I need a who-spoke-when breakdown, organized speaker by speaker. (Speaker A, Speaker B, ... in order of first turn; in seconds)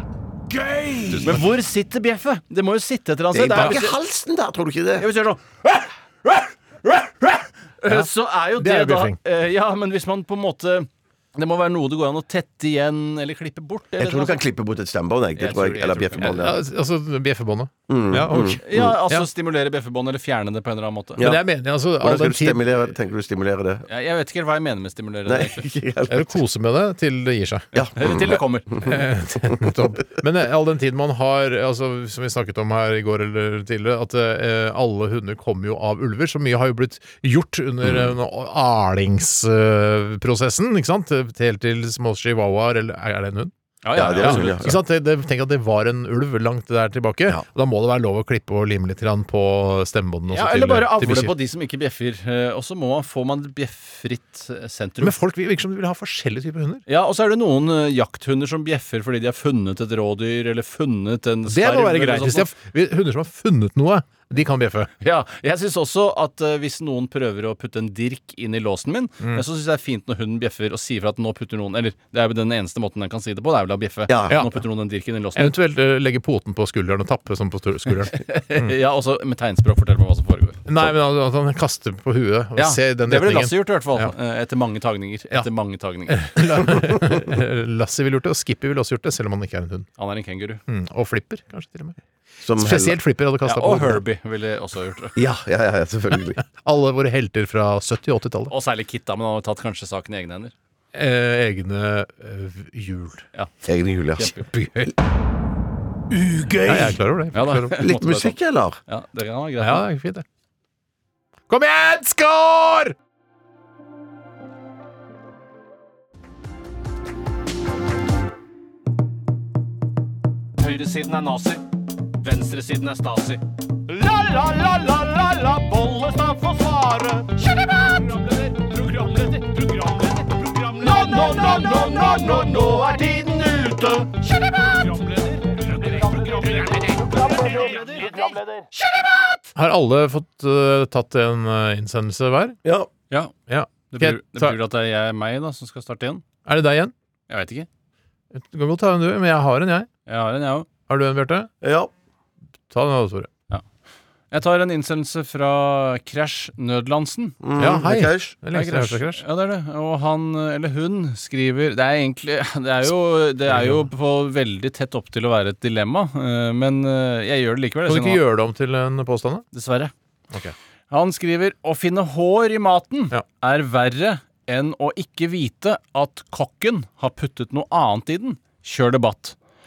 Speaker A: 0.6-1.3, 3.3-5.1, 14.0-16.6, 17.9-18.9, 22.0-23.9, 25.3-26.4, 27.7-28.9, 37.8-38.1, 44.0-44.8, 74.1-74.4, 92.4-93.0, 95.2-96.4, 103.7-104.3, 106.4-106.9, 107.8-108.8, 151.6-151.9, 157.4-158.3
Speaker B: 1.1-1.4, 3.5-3.8, 7.9-9.2, 16.2-19.3, 21.2-22.8, 26.1-27.7, 28.8-51.3, 55.0-56.8, 61.5-64.9, 74.3-74.5, 75.4-78.7, 80.7-84.1, 86.1-89.9, 90.7-92.0, 92.6-94.0, 96.4-98.5, 100.9-103.3, 104.2-104.9, 106.6-107.8, 109.6-110.2, 111.5-113.0, 139.6-142.6, 143.5-144.6, 146.4-146.9, 148.3-149.9, 150.9-151.5, 152.7-153.3, 157.6-159.2, 163.5-163.9, 167.9-169.4
Speaker C: 1.2-4.0, 5.0-14.4, 15.4-16.4, 18.6-21.2, 23.9-25.7, 27.9-28.8, 43.8-44.7, 50.3-55.1, 56.9-62.5, 65.0-75.5, 78.1-80.6, 82.6-86.7, 90.0-90.6, 93.5-95.2, 98.5-100.5, 104.2-104.4, 106.3-106.8, 107.3-108.3, 108.9-109.8, 120.6-121.6, 122.2-138.4, 143.9-146.2, 147.3-147.7, 150.1-150.7, 154.3-157.4, 158.5-168.2, 169.5-169.9, 170.9-179.4